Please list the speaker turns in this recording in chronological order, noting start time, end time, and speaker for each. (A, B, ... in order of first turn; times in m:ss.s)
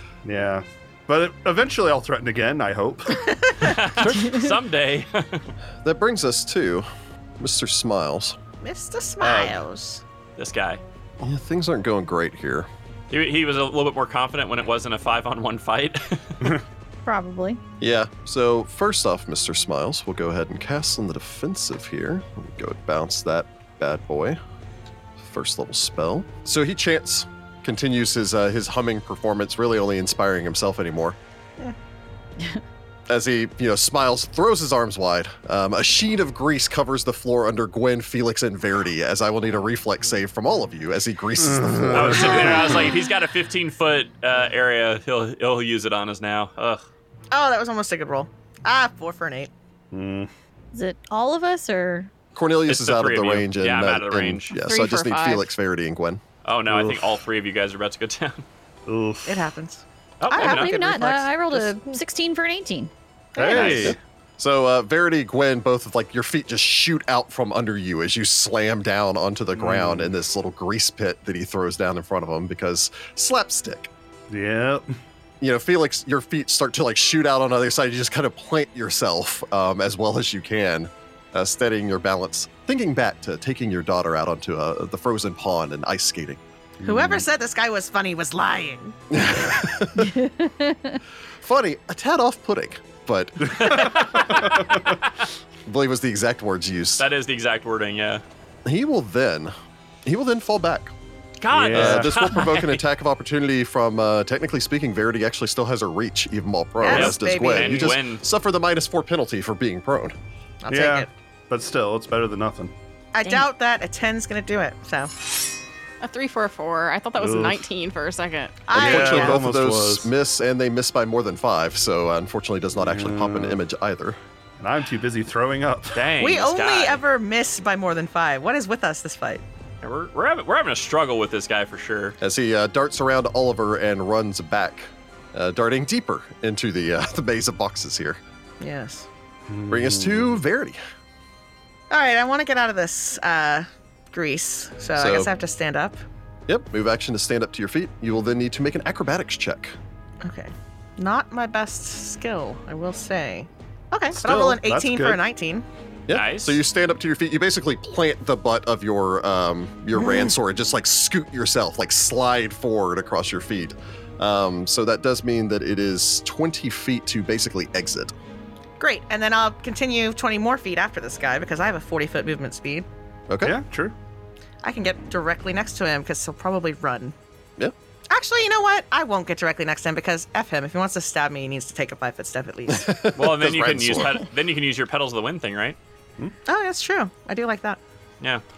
0:00.2-0:03.4 A
0:03.6-0:05.4 B
0:03.6-0:03.9 C
0:05.8-0:06.8 D
0:07.4-0:08.4 D
0:08.6-0:10.0 C
0:09.2-0:09.6 B
0:10.4-0:10.8 B
0:11.2-0:12.7 D
0:13.1-0:16.6 B
0:17.0-0:17.6 E
0:17.8-0:24.4 D
0:25.2-0:31.2 D
0:33.1-0:42.9 D
0:41.4-0:42.9 A
0:41.9-0:46.8 B
0:47.3-0:49.5 C
0:49.9-0:50.3 A
0:50.7-0:52.1 E
0:52.3-0:56.2 D
0:52.7-0:54.6 B
0:54.5-0:55.5 F
0:56.4-0:58.4 B
0:56.7-0:57.0 A
0:58.9-0:59.4 A
0:59.2-1:02.0 C
1:00.2-1:00.8 B
1:00.3-1:02.9 E
1:03.3-1:04.0 C
1:03.4-1:04.0 A
1:03.4-1:03.9 B
1:04.4-1:13.9 D
1:09.6-1:10.1 A
1:14.3-1:14.8 A
1:15.4-1:26.4 D
1:26.8-1:27.2 A
1:26.8-1:29.0 C
1:29.1-1:30.1 D
1:30.0-1:31.0 E
1:31.4-1:33.9 D
1:33.5-1:34.9 A
1:33.6-1:35.1 B
1:35.6-1:37.1 D
1:37.0-1:38.2 B
1:38.6-1:39.5 D
1:40.0-1:40.9 D
1:41.4-1:42.8 B
1:41.5-1:42.3 A
1:41.7-1:50.1 D
1:46.8-1:48.0 C
1:46.8-1:48.2 B
1:50.6-1:51.1 C
1:50.7-1:52.7 A
1:53.1-1:55.1 C
1:56.0-1:58.7 F
1:57.2-1:57.6 A
1:58.7-1:59.4 C
1:58.7-2:00.1 A
1:58.7-2:04.2 D
2:02.8-2:03.6 A
2:04.6-2:06.0 A
2:05.9-2:07.0 B
2:06.2-2:09.4 C
2:09.8-2:12.2 B
2:12.2-2:18.2 D
2:18.6-2:19.1 C
2:19.5-2:20.4 A
2:19.7-2:20.8 D
2:21.9-2:26.0 C
2:25.0-2:25.3 D
2:26.5-2:29.7 D
2:30.2-2:35.6 C
2:34.1-2:35.2 A
2:36.1-2:48.1 D
2:36.1-2:36.6 B
2:40.0-2:40.3 C
2:48.8-2:52.9 C
2:53.3-2:53.6 D
2:53.4-2:53.9 A
2:54.6-2:57.2 C
2:58.1-3:02.9 C
3:02.7-3:04.2 D
3:03.1-3:05.8 B
3:06.4-3:07.8 C